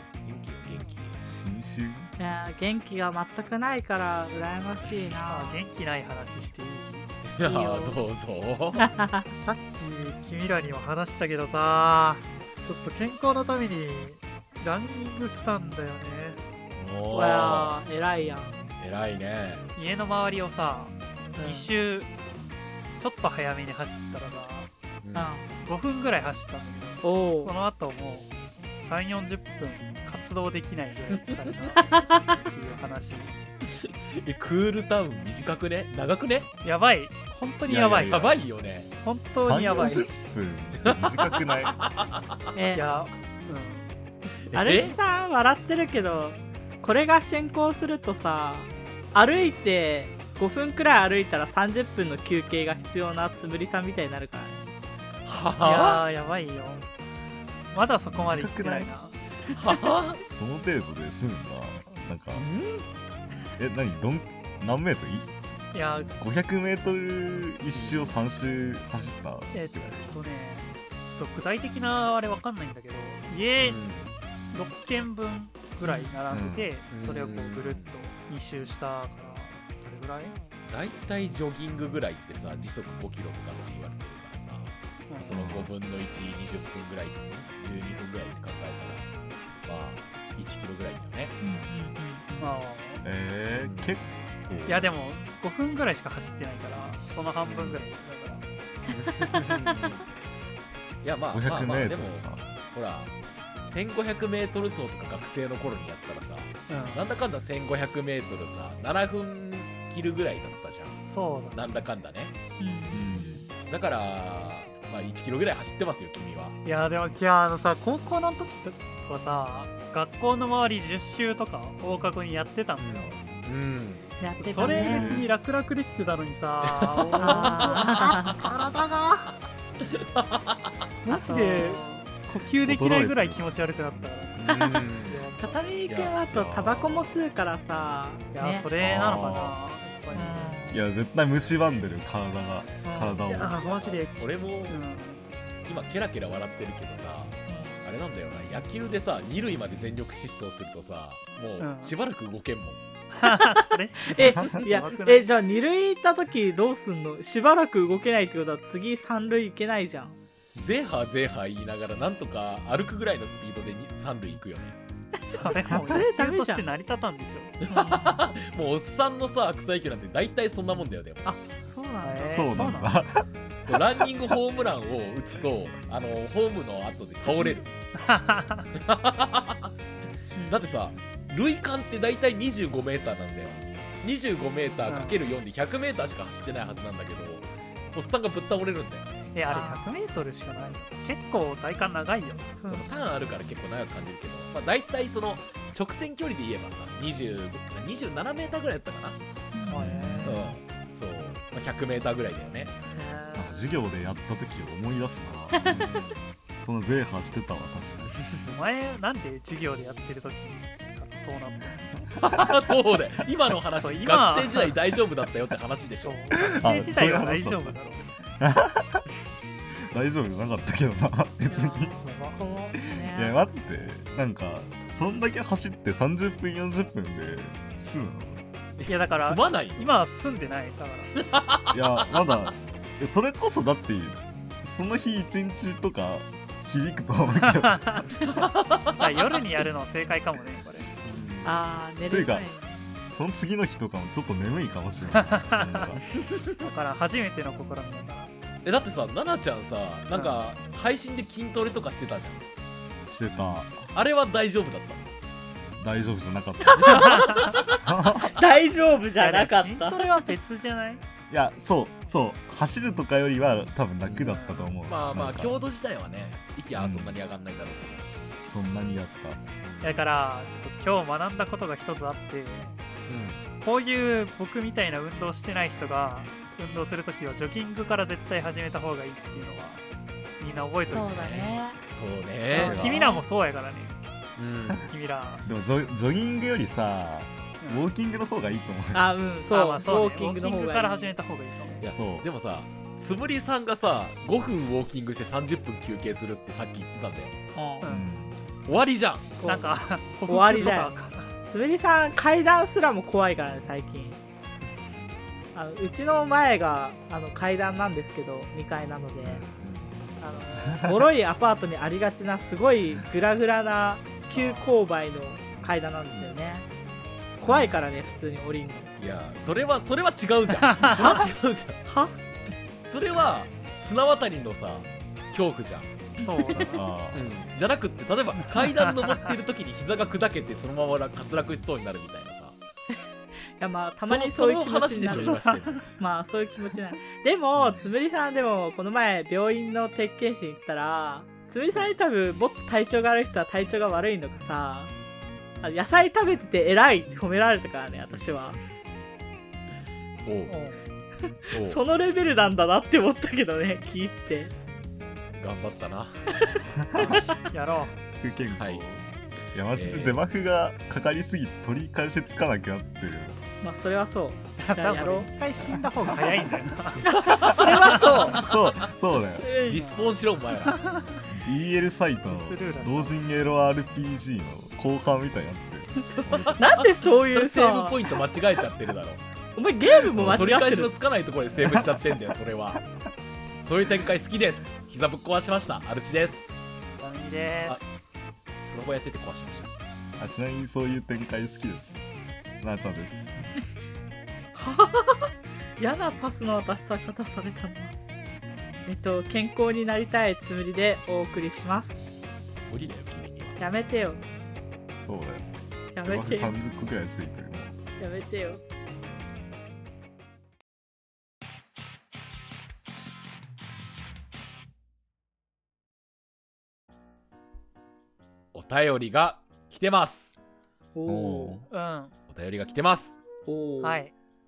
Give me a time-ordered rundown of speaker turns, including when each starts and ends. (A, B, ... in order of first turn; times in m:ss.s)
0:00.2-0:01.2 A
0:01.2-0:02.1 B
0:02.2-0:05.6 C
0:05.3-0:07.1 D
0:07.2-0:08.9 A
0:07.4-0:08.0 C
0:08.8-0:09.3 C
0:09.4-0:16.4 D
0:16.8-0:17.8 A
0:17.1-0:18.6 C
0:18.8-0:19.6 A
0:19.7-0:22.1 D
0:21.4-0:21.7 C
0:23.0-0:24.7 D
0:25.0-0:25.3 A
0:25.1-0:25.5 C
0:25.6-0:33.3 D
0:27.0-0:27.5 C
0:31.9-0:32.3 C
0:33.7-0:36.5 A
0:36.6-0:38.4 D
0:37.7-0:38.3 B
0:38.0-0:38.9 A
0:39.0-0:40.1 D
0:39.4-0:41.8 B
0:40.8-0:42.4 A
0:42.6-0:42.8 C
0:42.7-0:43.9 D
0:44.5-0:45.0 A
0:44.5-0:54.6 C
0:55.2-0:56.0 A
0:55.6-0:56.9 D
0:57.7-0:59.2 D
0:58.1-0:58.9 B
0:59.5-1:00.2 A
1:00.3-1:02.5 B
1:02.3-1:02.9 A
1:03.6-1:05.3 B
1:05.7-1:06.1 D
1:06.2-1:10.1 B
1:07.8-1:08.1 A
1:09.5-1:13.8 D
1:13.6-1:14.1 A
1:14.5-1:20.4 D
1:15.8-1:16.2 C
1:16.3-1:16.7 B
1:16.9-1:17.9 A
1:20.7-1:29.1 A
1:25.1-1:25.4 D
1:25.3-1:25.7 B
1:29.6-1:31.3 A
1:31.4-1:32.6 C
1:32.4-1:33.0 D
1:33.0-1:34.9 B
1:33.6-1:34.0 A
1:34.7-1:38.4 D
1:37.4-1:37.8 A
1:38.9-1:40.0 A
1:39.3-1:39.6 C
1:41.0-1:43.1 A
1:41.3-1:42.5 B
1:43.6-1:52.3 A
1:46.7-1:47.1 D
1:51.1-1:51.6 D
1:52.6-1:53.5 C
1:52.9-1:53.4 B
1:53.7-1:56.6 A
1:56.6-2:03.2 D
2:02.8-2:04.1 A
2:04.2-2:05.3 C
2:04.4-2:09.3 D
2:04.6-2:05.3 B
2:06.6-2:08.4 A
2:07.2-2:08.4 C
2:09.9-2:10.8 A
2:11.1-2:15.8 D
2:11.1-2:11.8 C
2:12.6-2:13.5 B
2:14.4-2:15.2 A
2:14.5-2:14.9 C
2:15.4-2:18.7 C
2:15.9-2:17.2 A
2:18.3-2:20.6 D
2:18.8-2:19.6 B
2:20.1-2:20.8 C
2:20.7-2:23.6 B
2:22.8-2:23.2 C
2:23.2-2:25.3 D
2:23.6-2:24.8 A
2:25.6-2:32.8 A
2:27.5-2:27.8 C
2:31.6-2:31.9 D
2:33.1-2:35.3 D
2:33.2-2:40.2 C
2:34.2-2:34.6 B
2:40.6-2:44.8 A
2:45.3-2:47.6 D
2:45.4-2:46.7 C
2:45.7-2:46.0 B
2:47.6-2:51.2 A
2:47.7-2:48.3 C
2:51.2-2:52.8 C
2:52.0-2:53.0 D
2:52.2-2:53.7 B
2:53.6-2:57.7 A
2:58.0-2:58.7 D
2:58.8-2:59.7 A
3:00.4-3:00.6 C
3:00.5-3:09.1 A
3:04.9-3:05.2 D
3:09.3-3:12.5 D
3:09.5-3:09.9 C
3:12.7-3:19.2 A
3:19.5-3:20.0 C
3:19.7-3:20.5 D
3:19.8-3:20.6 B
3:20.2-3:22.8 A
3:22.9-3:23.7 D
3:23.3-3:25.9 B
3:25.5-3:26.0 C
3:26.6-3:28.1 B
3:28.5-3:31.9 D
3:32.2-3:36.2 A
3:33.8-3:34.8 D
3:36.0-3:38.4 D
3:36.3-3:37.8 B
3:38.4-3:39.0 B
3:39.9-3:41.9 B
3:41.5-3:43.3 C
3:42.0-3:42.4 D
3:42.8-3:48.4 B
3:48.8-3:49.9 A
3:48.9-3:51.1 D
3:51.2-3:52.3 A
3:51.7-3:58.1 B
3:57.4-3:58.1 D
3:58.3-3:59.4 A
3:58.9-4:00.9 D
4:01.0-4:01.6 A
4:01.4-4:02.8 C
4:02.1-4:02.5 B
4:03.1-4:06.0 B
4:05.1-4:06.0 D
4:06.3-4:06.6 A
4:06.6-4:08.3 D
4:08.6-4:12.4 A
4:10.1-4:10.4 D
4:13.1-4:13.8 B
4:13.9-4:15.1 A
4:15.8-4:17.2 B
4:16.7-4:17.4 C
4:16.9-4:17.6 A
4:17.8-4:18.4 B
4:18.2-4:20.3 C
4:19.1-4:21.0 D
4:21.3-4:25.6 B
4:24.0-4:24.4 A
4:24.2-4:24.8 D
4:24.9-4:28.1 A
4:26.8-4:27.1 B
4:28.4-4:29.4 B
4:29.6-4:30.0 A
4:29.8-4:32.8 D
4:33.1-4:33.4 A
4:33.6-4:39.8 D
4:40.4-4:41.4 D
4:40.8-4:41.8 C
4:41.1-4:42.8 A
4:42.5-4:43.2 C
4:42.6-4:44.0 D
4:42.6-4:43.0 B
4:44.4-4:44.9 A
4:44.9-4:45.4 D
4:45.4-4:49.1 B
4:47.6-4:47.9 D
4:48.9-4:51.1 C
4:49.5-4:51.8 D
4:51.8-4:57.4 A
4:51.9-4:52.2 B
4:57.6-4:58.2 C
4:57.8-4:58.1 D
4:57.9-4:58.3 B
4:58.7-4:59.3 A
4:59.3-4:59.7 C
4:59.4-5:01.4 D
5:00.3-5:00.9 C
5:01.5-5:04.2 C
5:05.5-5:09.4 C
5:09.2-5:09.5 B
5:09.6-5:10.0 A
5:10.2-5:10.9 D
5:10.7-5:11.0 B
5:10.8-5:16.7 C
5:14.3-5:14.8 D
5:16.1-5:16.4 A
5:17.4-5:18.9 C
5:17.4-5:17.8 A
5:19.0-5:21.8 A
5:20.7-5:21.0 D
5:21.9-5:22.1 C
5:22.8-5:25.9 A
5:26.2-5:26.7 C
5:26.2-5:26.9 D
5:26.6-5:27.2 B
5:27.1-5:32.6 A
5:28.6-5:29.2 D
5:33.6-5:44.9 C
5:34.0-5:35.9 A
5:35.2-5:35.6 D
5:45.6-5:48.6 C
5:50.2-5:50.5 A
5:50.5-5:50.8 D
5:51.4-5:54.5 C
5:51.5-5:51.8 A
5:55.4-5:56.4 A
5:56.4-5:57.2 C
5:56.8-5:57.3 B
5:57.5-5:58.0 D
5:58.2-6:03.4 B
5:58.5-5:58.8 A
5:59.7-6:00.4 A
6:03.6-6:05.3 C
6:04.6-6:08.4 D
6:05.6-6:06.6 B
6:07.0-6:08.5 C
6:07.4-6:09.5 B
6:09.4-6:10.1 C
6:09.7-6:10.8 A
6:09.7-6:10.1 D
6:10.6-6:11.2 D
6:11.3-6:16.8 B
6:12.2-6:13.3 D
6:16.3-6:19.2 A
6:16.6-6:18.2 C
6:19.6-6:20.9 C
6:20.0-6:20.5 B
6:20.2-6:22.8 A
6:21.6-6:22.1 B
6:23.6-6:26.4 A
6:27.0-6:27.8 D
6:28.6-6:29.7 A
6:30.2-6:32.0 B
6:32.6-6:33.5 B
6:34.5-6:37.9 C
6:38.9-6:42.0 C
6:42.7-6:43.6 A
6:43.6-6:44.2 C
6:45.0-6:45.4 B
6:45.9-6:46.6 C
6:46.0-6:47.7 B
6:48.0-6:48.6 C
6:58.5-7:00.4 A
7:00.9-7:01.6 C
7:01.1-7:01.7 B
7:01.7-7:02.1 D
7:02.3-7:03.2 A
7:03.4-7:04.0 C
7:03.8-7:04.1 D